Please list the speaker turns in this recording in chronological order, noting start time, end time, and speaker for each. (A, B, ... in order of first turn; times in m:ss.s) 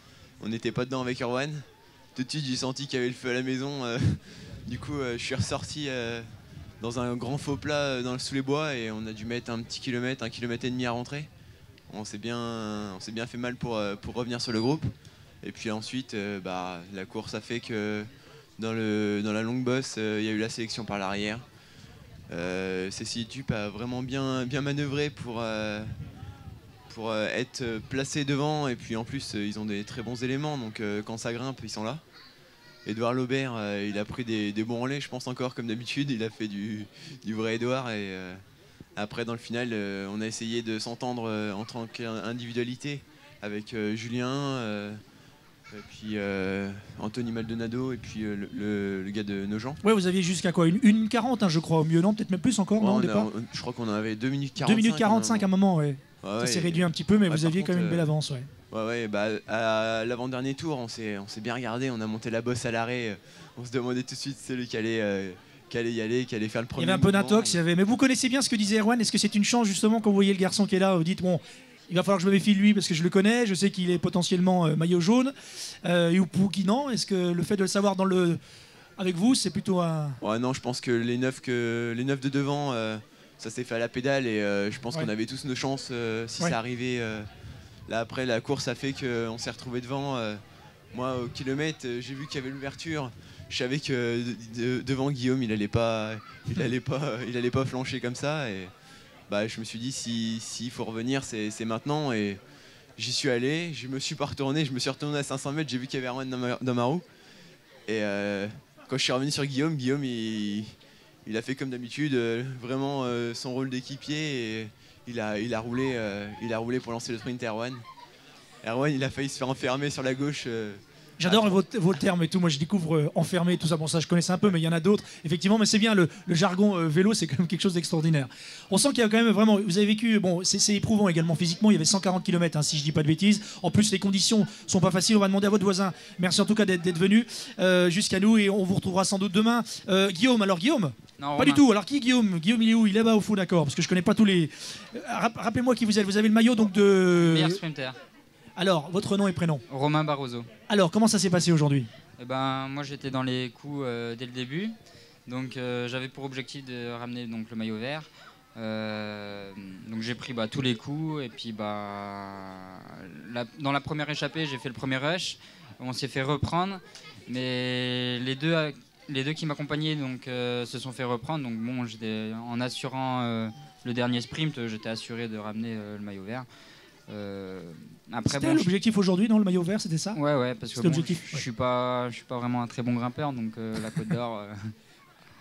0:00.4-0:11.3 A
0:11.9-0:14.9 A
0:15.4-0:21.4 A
0:22.3-0:25.9 A
0:26.9-0:32.0 A
0:32.8-0:38.4 A
0:39.0-0:45.0 A
0:45.7-0:49.8 A
0:49.8-0:53.3 B
0:52.8-0:55.5 A
0:54.6-0:58.5 B
0:56.2-0:58.1 A
0:58.7-1:07.6 A
1:06.8-1:18.4 B
1:19.0-1:20.2 B
1:20.2-1:27.3 A
1:27.9-1:30.4 A
1:30.9-1:38.7 A
1:39.3-1:42.4 A
1:43.0-1:47.0 A
1:47.8-1:57.8 A
1:58.6-2:01.6 A
2:01.2-2:27.6 B
2:21.2-2:21.6 C
2:27.2-2:28.0 C
2:28.6-2:29.6 B
2:29.7-2:30.5 C
2:30.7-2:31.9 B
2:32.2-2:34.7 C
2:35.3-2:56.4 C
2:57.1-2:58.7 C
2:58.2-3:00.2 B
3:00.1-3:04.7 C
3:00.8-3:01.4 B